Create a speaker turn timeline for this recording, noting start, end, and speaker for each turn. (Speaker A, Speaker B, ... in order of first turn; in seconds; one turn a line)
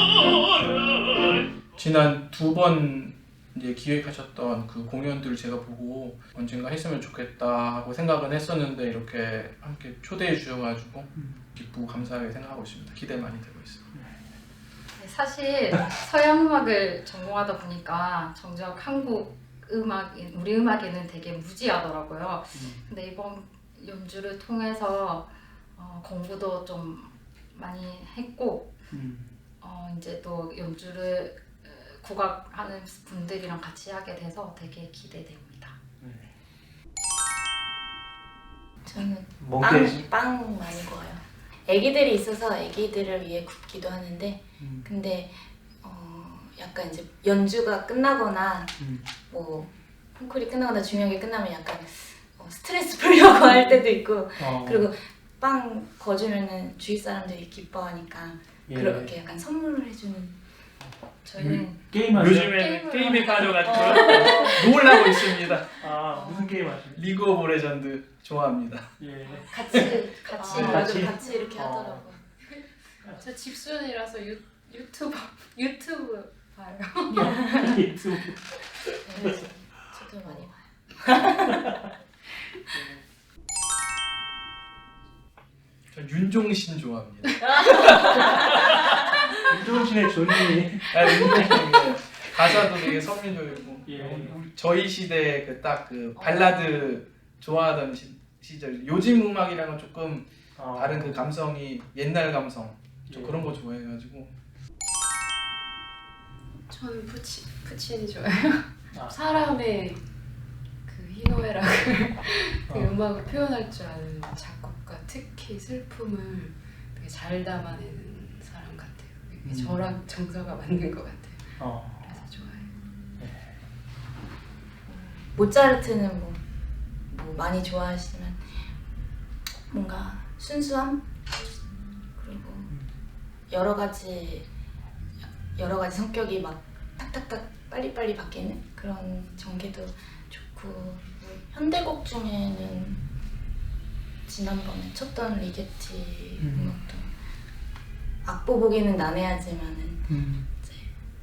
Speaker A: 1.7-13.8
Speaker B: 11.1-11.4
Speaker C: 15.0-28.8
Speaker B: 22.5-22.8
Speaker B: 28.9-29.3
Speaker C: 29.6-35.8
Speaker B: 36.0-36.3
Speaker D: 38.8-60.4
Speaker B: 39.4-40.0
Speaker B: 44.6-44.9
Speaker B: 48.8-49.1
Speaker B: 54.4-54.8
Speaker B: 58.7-59.1
Speaker C: 61.2-61.8
Speaker A: 61.4-65.9
Speaker B: 61.9-62.7
Speaker C: 62.4-64.8
Speaker D: 63.7-64.7
Speaker B: 65.8-67.0
Speaker D: 66.1-66.5
Speaker A: 66.9-68.9
Speaker B: 69.0-69.5
Speaker C: 69.3-71.3
Speaker D: 69.7-72.2
Speaker A: 70.5-70.8
Speaker B: 70.5-72.0
Speaker E: 72.5-77.5
Speaker B: 77.1-79.3
Speaker D: 79.1-81.6
Speaker A: 85.9-88.8
Speaker B: 89.5-91.7
Speaker A: 90.9-104.3
Speaker B: 93.8-94.5
Speaker D: 96.2-96.8
Speaker B: 100.5-101.2
Speaker B: 103.1-103.5
Speaker E: 106.7-110.0
Speaker B: 108.9-109.6
Speaker E: 110.8-122.7
Speaker B: 112.7-112.9
Speaker B: 119.4-119.8
Speaker B: 121.6-122.1
Speaker B: 123.2-123.5
Speaker D: 124.8-126.4
Speaker D: 127.1-128.7
Speaker D: 129.7-131.1
Speaker D: 132.2-132.7
Speaker D: 133.5-134.5
Speaker D: 135.5-143.0
Speaker D: 144.2-147.1
Speaker B: 146.4-146.7
Speaker D: 148.2-150.9
Speaker B: 150.1-150.5